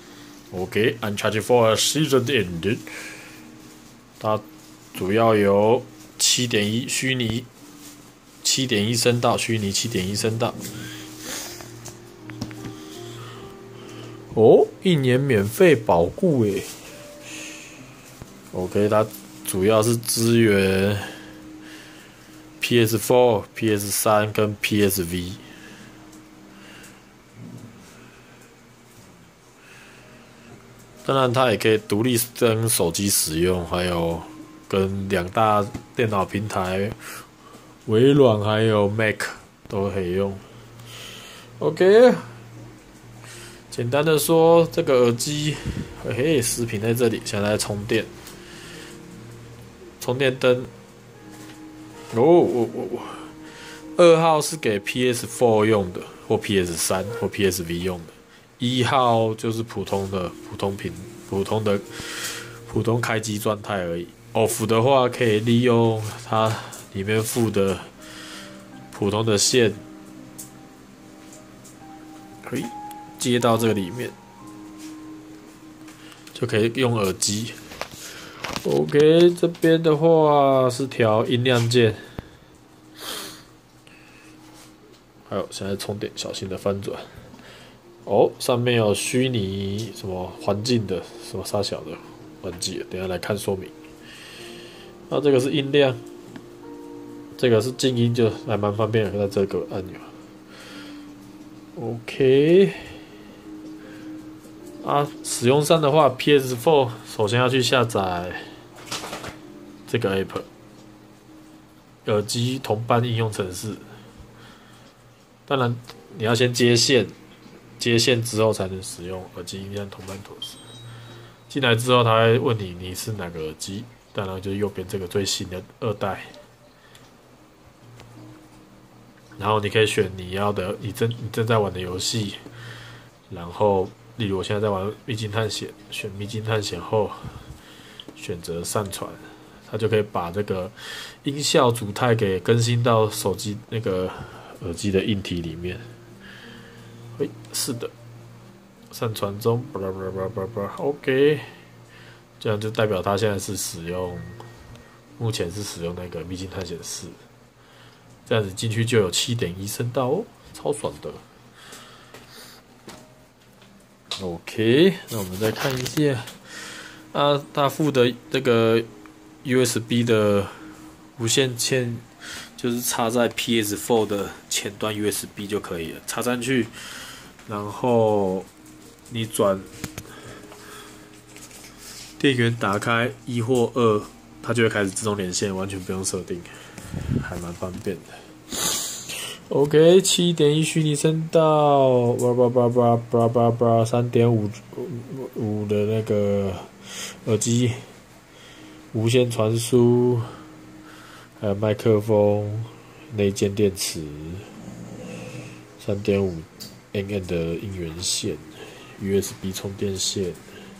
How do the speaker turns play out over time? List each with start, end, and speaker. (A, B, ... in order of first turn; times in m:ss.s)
0:00.5-0:02.8 A
0:04.2-0:07.5 A
0:08.4-0:10.6 A
0:14.3-0:16.7 A
0:18.5-0:21.1 A
0:22.6-0:25.4 A
0:31.0-0:37.0 A
0:37.9-0:40.4 A
0:41.6-0:42.3 A
0:43.7-0:48.1 A
0:50.0-0:50.7 A
0:52.1-0:53.3 A
0:54.0-1:07.9 A
1:08.9-1:09.8 A
1:12.4-1:14.1 A
1:16.3-1:17.6 A
1:18.6-1:22.0 A
1:25.3-1:27.1 A
1:28.0-1:33.7 A
1:35.1-1:36.0 A
1:37.4-1:40.1 A
1:41.8-1:42.8 A
1:44.8-1:48.4 A
1:49.9-1:50.5 A
1:52.0-1:53.8 A
1:55.5-1:57.1 A
1:57.8-2:00.6 A
2:01.5-2:06.3 A
2:09.4-2:12.4 A
2:13.3-2:17.4 A
2:18.2-2:25.8 A
2:27.1-2:27.9 A
2:28.9-2:31.5 A
2:32.4-2:34.4 A
2:35.2-2:37.2 A
2:38.2-2:41.2 A
2:44.2-2:48.9 A
2:49.4-2:50.5 A
2:51.2-2:52.0 A
2:52.6-2:58.5 A
2:59.1-2:59.7 A
3:02.2-3:08.1 A
3:09.0-3:17.8 A
3:18.9-3:20.3 A
3:21.4-3:24.5 A
3:25.8-3:30.4 A